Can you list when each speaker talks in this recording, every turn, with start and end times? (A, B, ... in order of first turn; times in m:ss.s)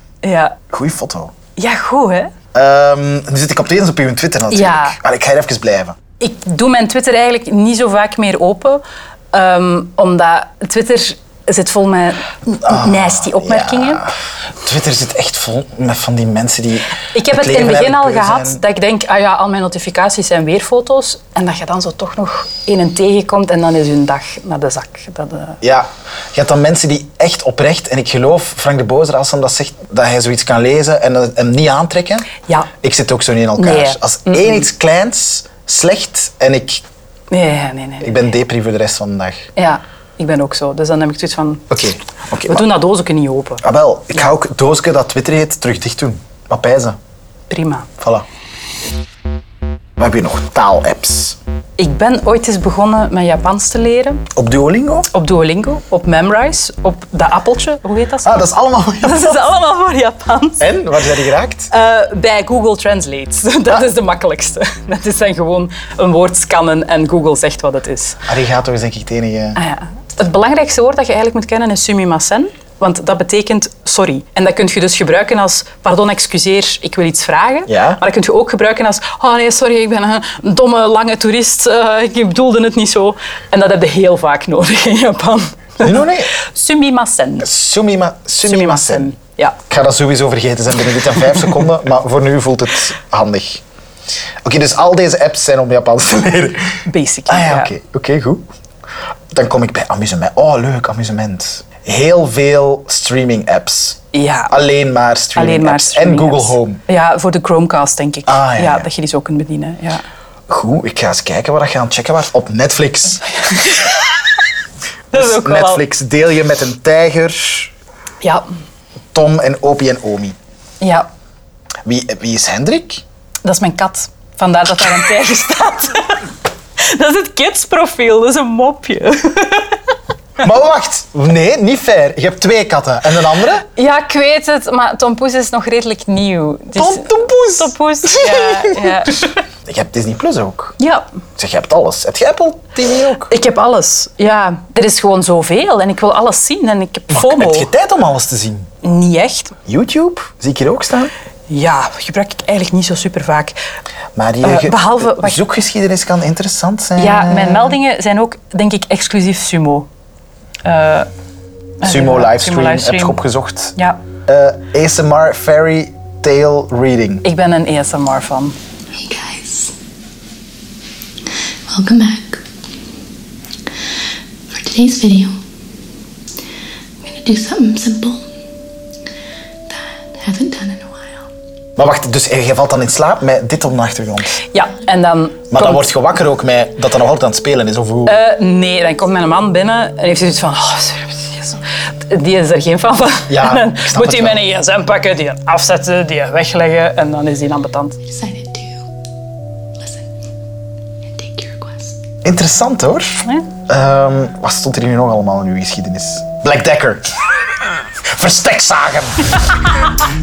0:00.2-0:00.6 A
0:00.7-0:01.4 B
0:01.6-0:02.3 A
0:02.5-0:06.0 B
0:04.5-0:05.0 A
0:06.2-0:14.1 A
0:12.7-0:18.6 B
0:17.1-0:25.6 A
0:25.6-0:32.3 B
0:32.8-0:36.8 B
0:33.6-0:34.7 A
0:37.3-0:38.3 A
0:38.0-0:39.5 B
0:39.6-0:41.8 A
0:41.7-0:42.7 B
0:42.5-0:44.3 A
0:43.6-0:47.0 B
0:47.5-0:47.9 A
0:48.0-0:48.2 B
0:50.0-0:51.4 B
0:51.8-0:54.2 A
0:54.3-0:55.1 B
0:55.1-0:58.5 A
0:58.2-0:59.5 B
0:59.0-1:00.7 A
1:00.6-1:01.7 B
1:01.7-1:08.2 A
1:08.3-1:09.6 B
1:09.6-1:27.5 A
1:17.7-1:18.0 B
1:25.8-1:26.4 B
1:27.4-1:29.1 B
1:28.4-1:29.6 A
1:29.7-1:33.6 B
1:34.4-1:38.5 B
1:36.9-1:37.7 A
1:39.3-1:46.8 B
1:44.1-1:44.6 A
1:45.4-1:50.0 A
1:48.3-1:48.9 B
1:50.5-1:53.3 B
1:53.5-1:54.0 A
1:55.1-1:55.8 A
1:55.1-1:57.7 B
1:59.1-2:00.4 B
2:00.8-2:01.1 A
2:01.8-2:03.0 B
2:03.4-2:09.8 A
2:10.4-2:13.7 B
2:13.8-2:19.3 A
2:16.8-2:19.1 B
2:19.7-2:20.8 B
2:20.8-2:21.0 A
2:21.4-2:23.3 B
2:23.3-2:27.7 A
2:27.1-2:28.7 B
2:28.8-2:29.6 A
2:29.7-2:31.1 B
2:31.5-2:33.6 A
2:34.2-2:37.8 B
2:34.4-2:35.4 A
2:37.0-2:39.9 A
2:40.6-2:41.1 A
2:41.8-2:43.2 A
2:41.8-2:43.8 B
2:44.3-2:47.2 B
2:47.2-2:48.6 A
2:49.0-2:49.7 C
2:51.7-2:52.4 C
2:54.5-2:55.4 C
2:57.0-2:58.3 C
2:59.7-3:01.3 C
3:01.8-3:04.4 B
3:04.5-3:05.9 A
3:05.5-3:08.2 B
3:08.0-3:18.0 A
3:13.3-3:14.4 B
3:18.0-3:18.9 C
3:21.1-3:22.0 C
3:22.2-3:27.1 B
3:28.1-3:29.5 B